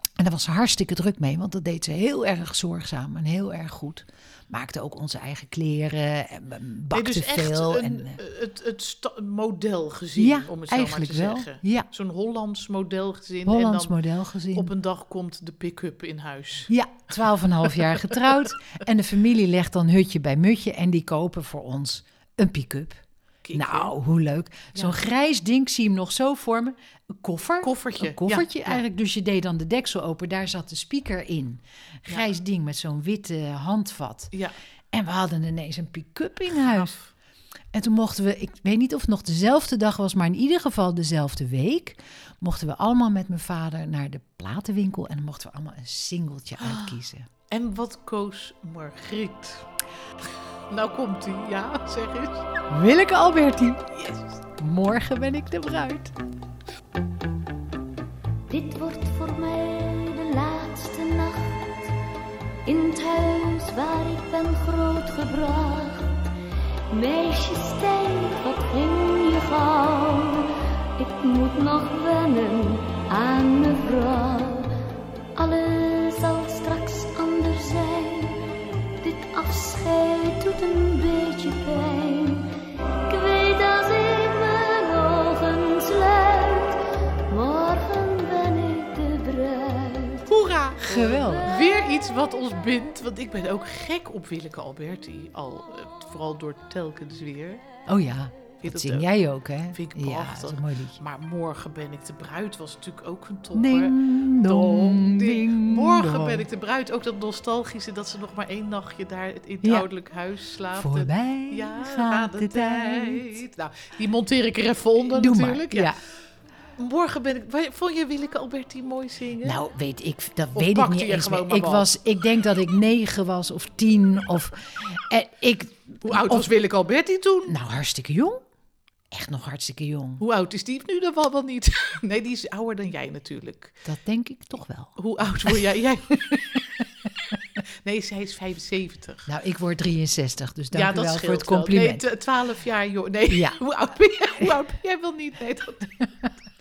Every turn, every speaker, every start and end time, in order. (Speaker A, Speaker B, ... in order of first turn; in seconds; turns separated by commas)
Speaker A: 0.2-8.2, Speaker B: 6.9-14.0, Speaker A: 10.2-11.9, Speaker A: 13.4-14.7, Speaker B: 14.5-16.7, Speaker A: 16.7-23.0, Speaker B: 23.4-23.9, Speaker A: 23.5-34.3, Speaker B: 27.6-28.8, Speaker A: 34.9-36.9, Speaker B: 36.5-37.1, Speaker A: 37.7-47.3, Speaker B: 46.6-47.0, Speaker B: 47.5-49.7, Speaker B: 50.7-52.5, Speaker A: 52.7-53.8, Speaker B: 53.9-54.4, Speaker A: 54.6-56.1, Speaker C: 58.5-61.9, Speaker C: 62.6-66.3, Speaker C: 66.9-74.8, Speaker C: 75.3-78.4, Speaker C: 79.0-82.5, Speaker C: 83.1-90.3, Speaker B: 90.3-97.6, Speaker A: 90.8-91.5, Speaker A: 97.9-101.0, Speaker B: 98.6-99.1, Speaker B: 99.7-115.9, Speaker A: 103.5-106.4, Speaker A: 110.7-113.4, Speaker A: 115.1-116.0, Speaker B: 116.8-119.6, Speaker A: 119.4-126.5, Speaker B: 120.5-121.9, Speaker B: 126.0-127.5, Speaker A: 127.5-128.4, Speaker A: 129.1-130.2, Speaker B: 130.2-133.8, Speaker A: 133.8-135.6, Speaker B: 135.0-136.4, Speaker B: 137.6-139.3, Speaker A: 139.3-142.0, Speaker B: 140.7-146.1, Speaker A: 143.3-143.6